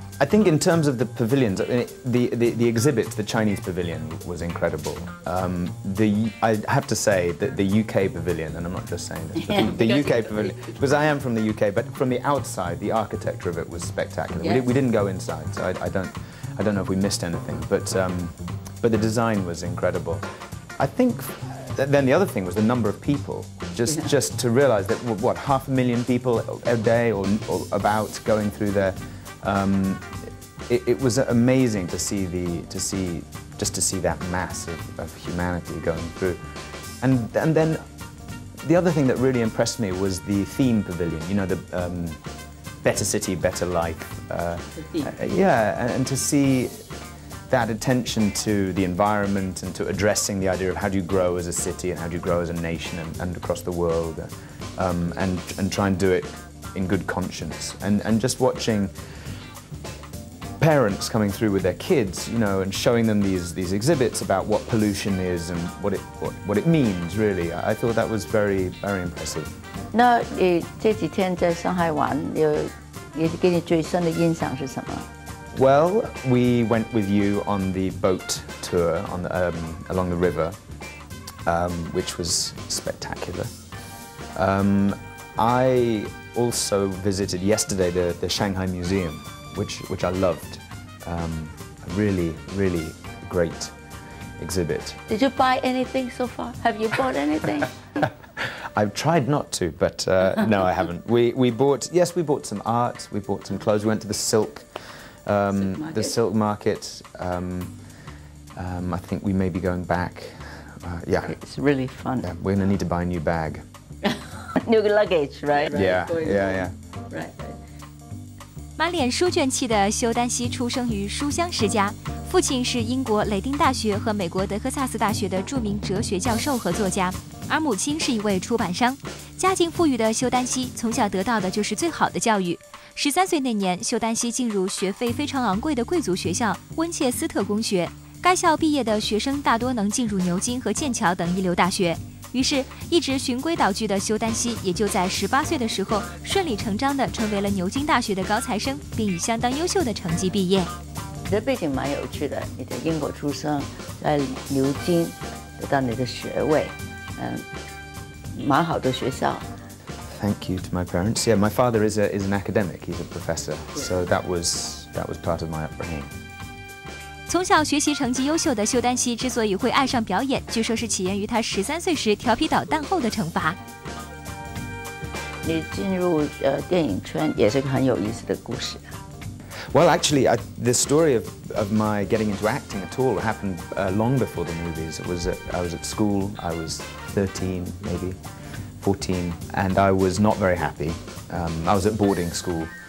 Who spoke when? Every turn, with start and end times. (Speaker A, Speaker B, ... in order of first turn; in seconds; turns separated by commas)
Speaker A: 0.2-20.2, Speaker B: 9.5-10.1, Speaker B: 14.4-14.7, Speaker A: 20.8-30.1, Speaker A: 30.7-36.4, Speaker A: 37.0-37.8, Speaker A: 38.6-42.2, Speaker A: 42.8-46.8, Speaker A: 47.5-58.9, Speaker A: 60.6-69.5, Speaker B: 69.9-75.1, Speaker A: 75.5-80.6, Speaker A: 81.5-83.5, Speaker A: 84.4-93.7, Speaker A: 94.4-95.0, Speaker B: 95.1-97.7, Speaker A: 98.0-104.7, Speaker A: 105.3-107.7, Speaker B: 105.7-106.1, Speaker A: 108.6-111.3, Speaker B: 111.2-112.3, Speaker A: 112.2-113.6, Speaker B: 114.1-117.6, Speaker A: 115.7-116.7, Speaker C: 118.8-150.7, Speaker B: 151.3-157.4, Speaker B: 158.3-159.5, Speaker A: 160.1-166.1, Speaker C: 167.3-173.6, Speaker B: 175.4-178.8, Speaker A: 179.7-188.2, Speaker A: 188.8-192.7